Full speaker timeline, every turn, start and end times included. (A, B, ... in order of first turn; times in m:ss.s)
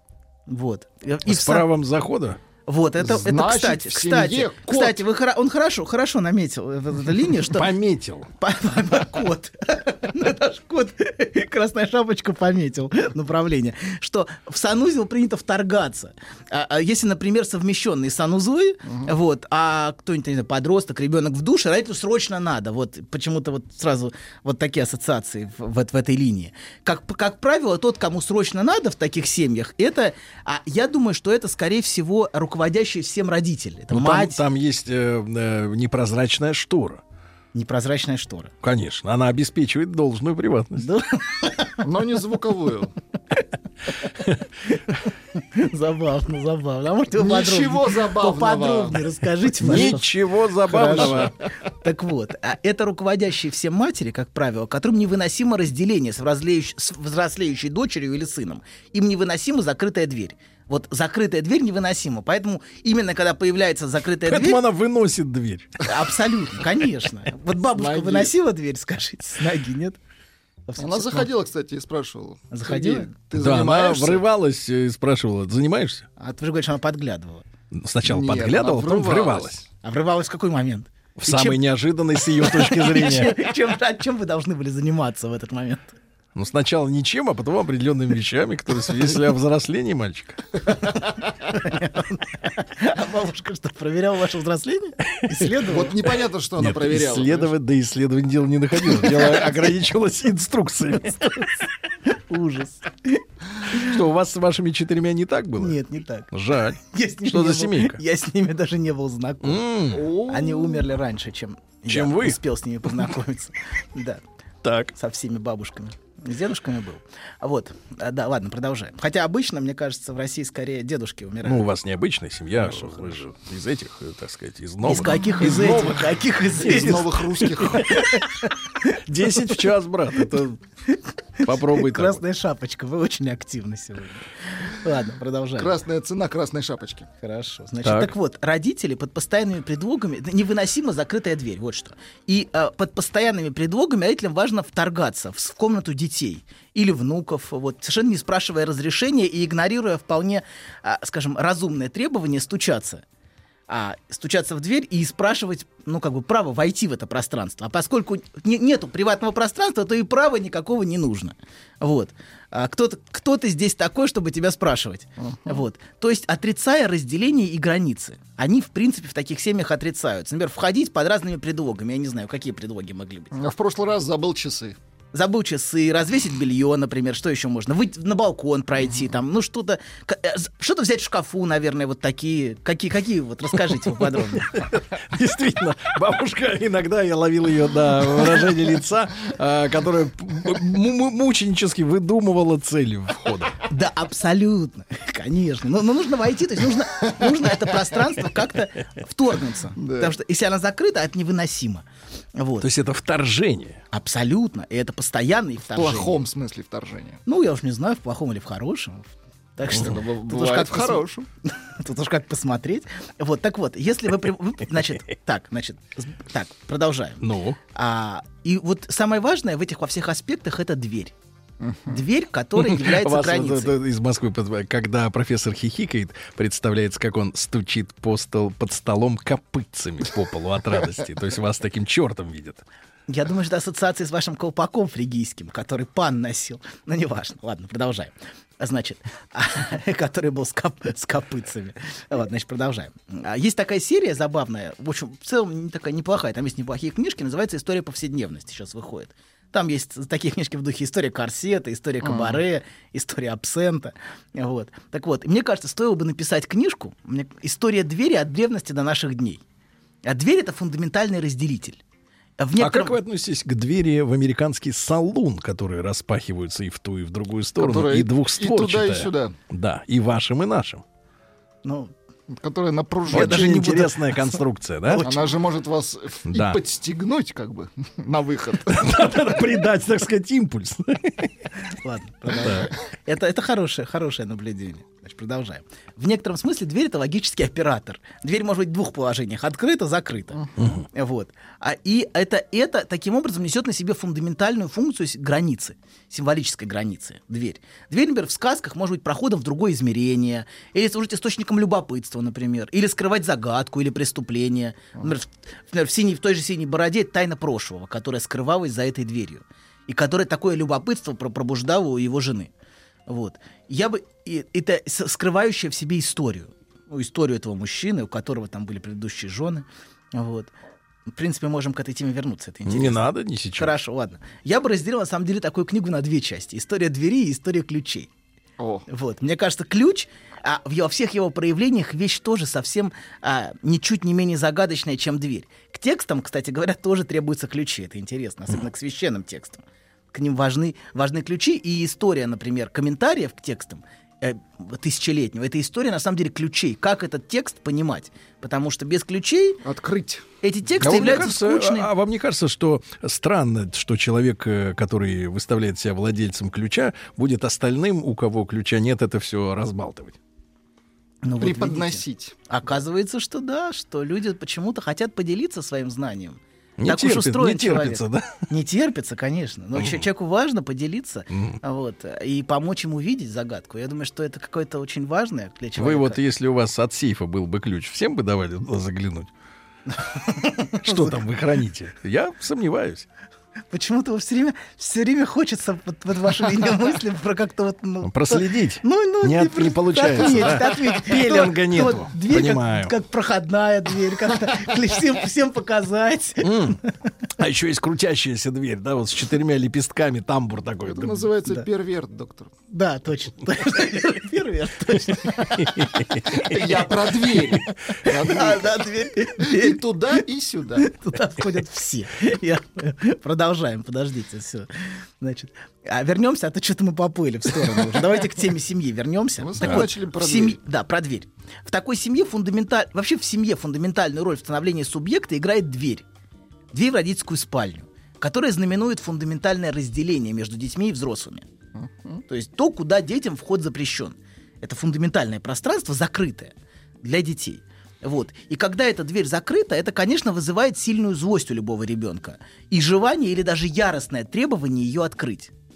0:00.5-0:01.7 A
0:01.2-0:02.4 B
0:02.7-0:07.7 A
0:03.0-0:05.0 C
0:07.4-0:08.3 B
0:08.4-0:34.4 A
0:33.9-0:37.0 B
0:37.5-0:38.5 A
0:38.6-0:40.9 B
0:40.8-0:41.8 A
0:41.8-0:42.9 C
0:45.4-0:50.1 A
0:47.2-0:49.0 C
0:49.6-0:51.3 B
0:50.6-1:04.6 A
0:50.8-0:51.3 C
1:04.2-1:05.7 B
1:05.8-1:10.0 A
1:07.7-1:08.3 C
1:10.7-1:11.3 A
1:10.8-1:14.2 C
1:12.5-1:13.1 A
1:13.4-1:16.0 B
1:16.2-1:17.4 A
1:17.7-1:19.6 B
1:18.0-1:19.6 C
1:19.8-1:21.6 A
1:21.2-1:23.4 B
1:22.2-1:26.0 A
1:26.4-1:30.4 B
1:31.5-1:36.0 A
1:35.2-1:35.5 B
1:35.7-1:37.5 C
1:36.6-1:41.3 B
1:42.1-1:43.9 A
1:43.7-1:45.8 B
1:45.6-1:46.3 A
1:46.3-1:48.0 B
1:46.8-1:49.7 A
1:49.4-1:50.1 B
1:49.9-1:50.9 C
1:50.3-1:54.2 A
1:51.9-1:52.4 B
1:54.6-1:54.9 B
1:54.9-2:01.6 A
2:01.4-2:06.0 B
2:04.8-2:09.6 A
2:05.4-2:05.8 C
2:06.6-2:07.9 C
2:06.6-2:07.0 B
2:09.0-2:10.6 B
2:10.9-2:15.7 A
2:11.4-2:12.2 B
2:15.6-2:17.1 C
2:17.2-2:33.0 A
2:17.8-2:18.1 B
2:33.7-2:53.4 A
2:45.2-2:45.6 C
2:53.3-2:54.8 C
2:55.1-3:04.7 A
3:04.0-3:13.6 B
3:13.7-3:21.8 A
3:19.8-3:20.2 C
3:22.4-3:22.7 A
3:22.6-3:23.8 B
3:23.9-3:26.2 A
3:25.7-3:27.2 C
3:27.3-3:37.2 A
3:29.7-3:31.3 C
3:37.2-3:37.6 B
3:37.7-3:41.1 A
3:41.6-3:41.9 C
3:41.9-3:43.8 A
3:42.6-3:52.6 B
3:53.1-4:19.4 A
4:12.0-4:12.4 C
4:20.0-4:21.8 A
4:22.4-4:23.0 A
4:22.6-4:30.8 B
4:27.6-4:29.4 C
4:31.6-4:31.9 A
4:32.3-4:33.6 C
4:33.1-4:34.2 A
4:33.1-4:35.2 B
4:34.9-4:35.2 A
4:35.0-4:38.8 C
4:36.3-4:36.6 B
4:38.7-4:41.3 B
4:41.8-5:12.5 A
4:42.4-4:42.7 B
4:50.6-4:50.9 B
5:13.1-5:20.5 A
5:21.1-5:28.1 A
5:22.7-5:23.8 B
5:28.6-5:28.9 C
5:28.9-5:49.6 A
5:49.6-5:50.2 C
5:50.4-5:51.9 A
5:50.8-6:00.2 B
6:01.2-6:16.2 A
6:01.4-6:02.4 C
6:06.8-6:08.5 B
6:09.8-6:10.0 B
6:11.3-6:11.6 B
6:15.8-6:19.3 B
6:20.0-6:21.2 A
6:20.8-6:23.1 B
6:23.7-6:36.9 A
6:28.0-6:33.0 B
6:36.4-6:36.8 B
6:37.4-6:41.3 B
6:40.8-6:42.5 C
6:42.7-6:45.8 A
6:45.4-6:46.4 B
6:46.4-6:48.9 C
6:48.1-6:49.8 A
6:49.4-6:50.9 C
6:50.8-7:06.0 A
6:59.4-7:00.6 C
6:59.6-6:59.9 B
7:06.7-7:11.4 A
7:11.8-7:12.2 C
7:12.3-7:25.5 A